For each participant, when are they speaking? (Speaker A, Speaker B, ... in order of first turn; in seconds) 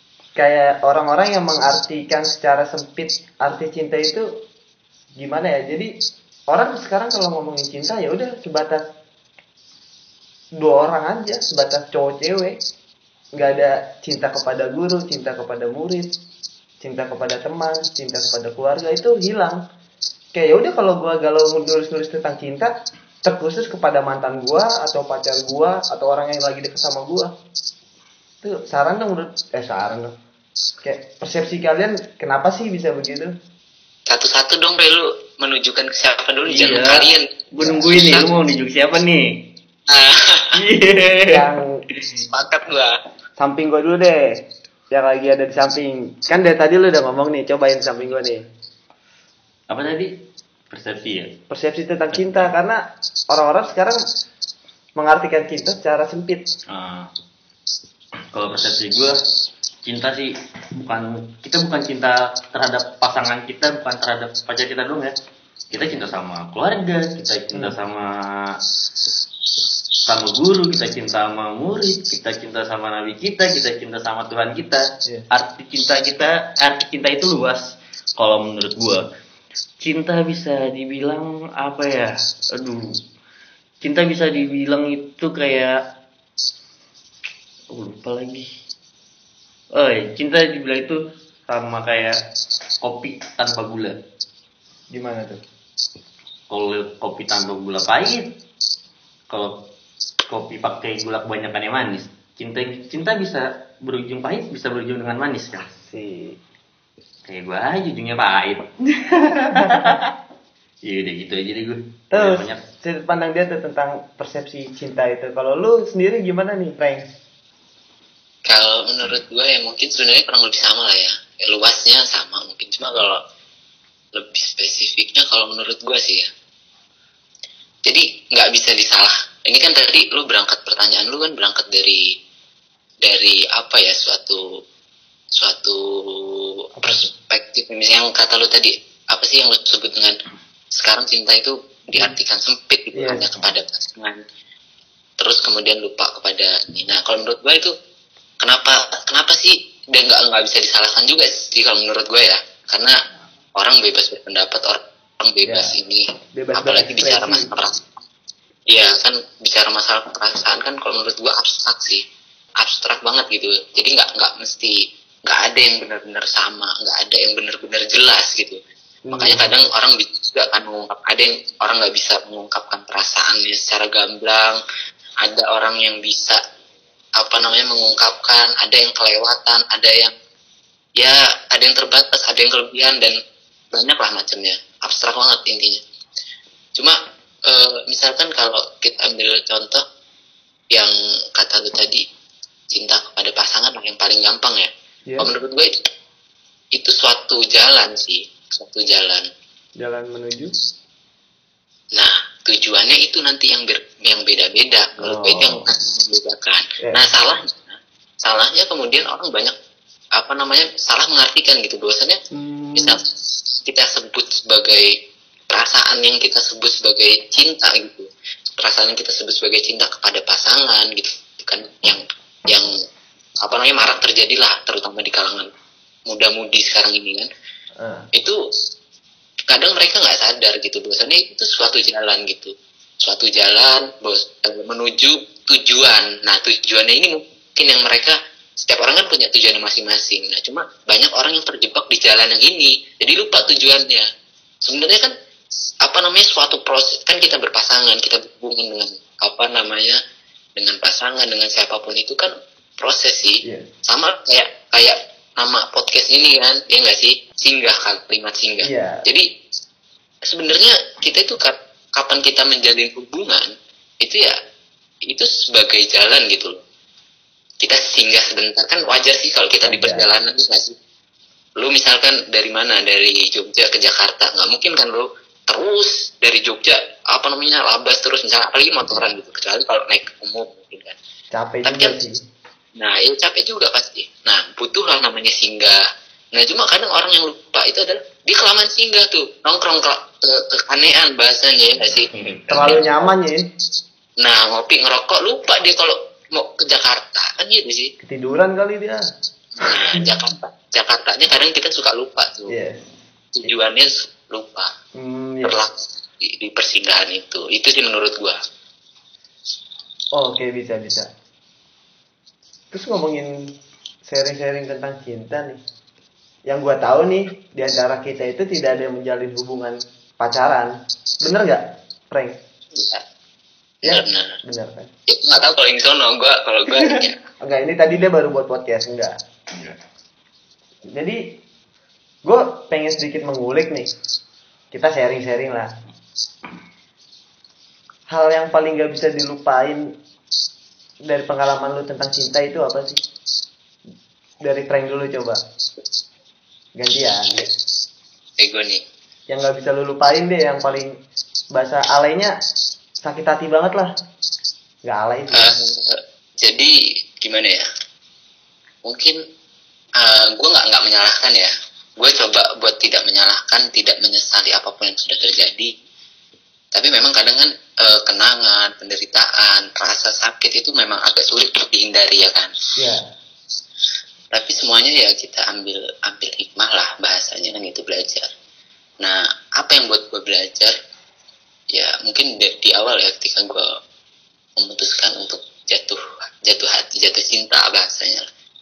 Speaker A: 0.4-4.3, 5.2-5.9, 6.5-8.8, 10.6-12.6, 13.3-16.2, 16.8-19.6, 20.3-22.7, 23.2-27.3, 28.4-30.1, 30.8-33.3, 37.6-38.3, 41.3-41.8, 43.4-48.4, 51.5-54.0, 55.0-56.5, 94.9-95.4, 105.7-106.4, 112.1-117.1, 136.8-137.1, 142.9-143.5, 155.4-155.7, 156.3-157.5, 169.1-169.5, 199.8-200.6, 205.0-205.7, 206.8-207.1, 212.3-213.0, 227.8-228.1, 253.4-253.7, 258.6-259.1, 269.6-270.1, 281.3-282.2, 292.5-293.4, 298.0-299.1, 299.6-300.1, 302.5-302.9, 305.0-305.6, 310.2-311.1, 312.7-313.3, 314.1-315.6, 316.5-320.7, 321.2-322.4, 323.8-324.9, 327.4-329.2, 330.9-331.4, 332.2-333.9, 334.7-335.7, 338.1-339.8, 341.1-343.0, 344.4-345.4, 346.8-347.5, 349.3-351.0, 351.5-352.3, 353.0-353.9, 354.8-355.5, 372.8-373.1
Speaker B: 34.1-37.3, 37.9-38.2, 39.9-40.6, 42.3-43.0, 118.5-123.2, 124.1-126.3, 127.8-132.0, 133.0-134.4, 135.4-140.2, 140.8-144.2, 145.2-147.7, 148.4-152.9, 153.6-156.0, 156.6-157.8, 158.7-162.0, 162.6-164.8, 165.3-168.6, 169.1-174.6, 175.2-176.4, 177.2-180.1, 181.0-183.1, 183.7-185.8, 186.8-189.8, 190.7-192.0, 192.7-195.7, 196.7-199.3, 202.0-209.6, 210.2-212.2, 212.8-213.0, 213.7-214.9, 215.5-222.7, 223.4-225.5, 226.1-227.3, 229.5-244.1, 244.6-245.1, 245.8-250.0, 250.6-259.2, 260.2-263.5, 264.0-264.4, 265.1-266.6, 267.6-270.8, 271.6-281.0, 281.6-281.9, 282.8-285.8, 286.3-292.8, 294.2-297.9, 299.6-302.5, 303.4-304.7, 305.4-308.4, 322.7-323.0, 323.9-324.4, 325.1-327.2, 348.4-348.8, 355.3-357.7, 358.9-359.2, 360.0-365.7, 366.7-372.5, 374.3-378.3, 379.0-380.7, 381.7-383.6, 384.6-388.3
Speaker C: 36.5-39.4, 40.5-41.4, 42.0-42.2, 49.7-51.4, 52.1-52.5, 56.7-57.1, 58.3-59.2, 59.8-65.2, 65.7-68.6, 70.1-79.0, 79.8-83.0, 83.8-85.8, 87.7-88.5, 89.8-92.2, 92.8-94.0, 96.5-98.4, 99.3-99.7, 100.3-105.7, 107.3-110.1, 110.8-112.6, 292.1-293.1